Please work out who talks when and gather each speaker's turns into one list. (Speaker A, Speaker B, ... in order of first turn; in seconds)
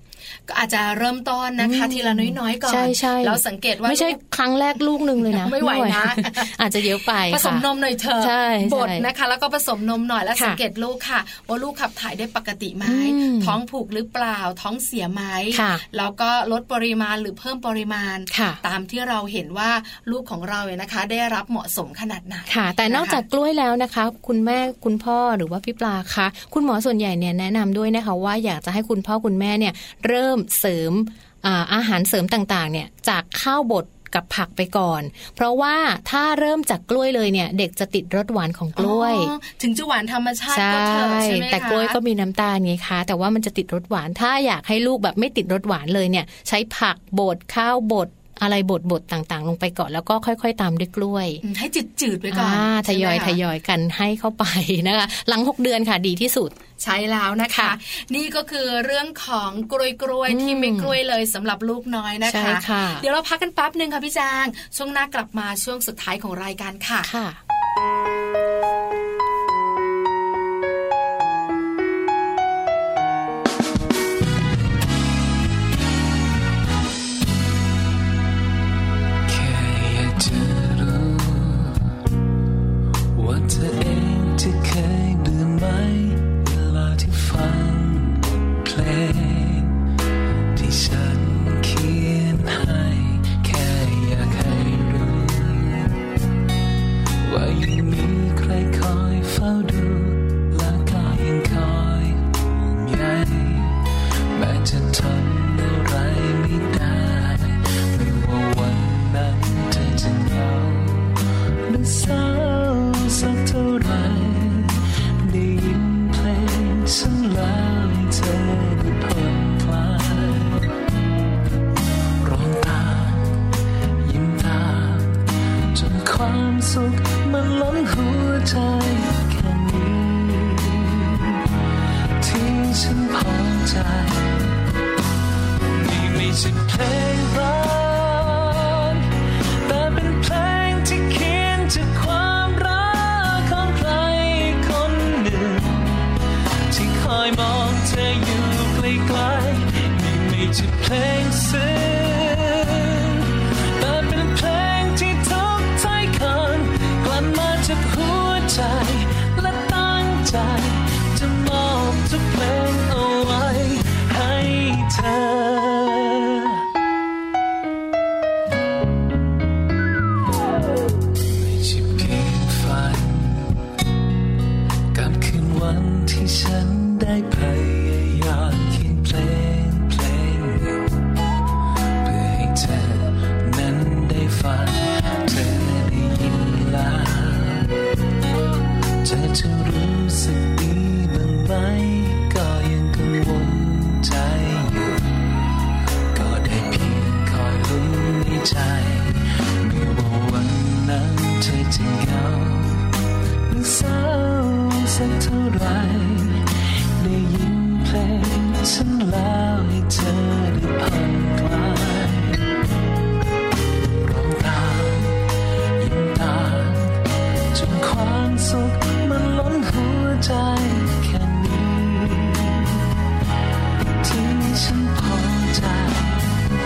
Speaker A: 0.5-4.2, 5.2-6.5, 7.2-23.2, 38.8-42.0, 51.4-53.4, 56.8-67.1
Speaker B: 1.6-7.7, 8.2-9.1, 12.8-13.6, 15.5-15.8, 18.3-18.6, 22.5-39.3, 40.5-51.4, 52.3-56.5, 60.3-61.0, 62.2-63.0, 67.0-67.4
Speaker C: 79.3-81.9, 83.1-89.8, 90.5-95.9, 97.2-120.7, 122.2-123.4, 124.0-131.4, 132.2-134.6, 135.7-139.1, 139.6-146.1, 146.7-166.6, 171.2-173.5, 174.9-181.0, 182.0-187.7, 189.0-195.1, 196.1-202.9, 203.5-212.5, 214.0-215.2, 215.8-217.0, 217.5-222.8, 224.0-226.3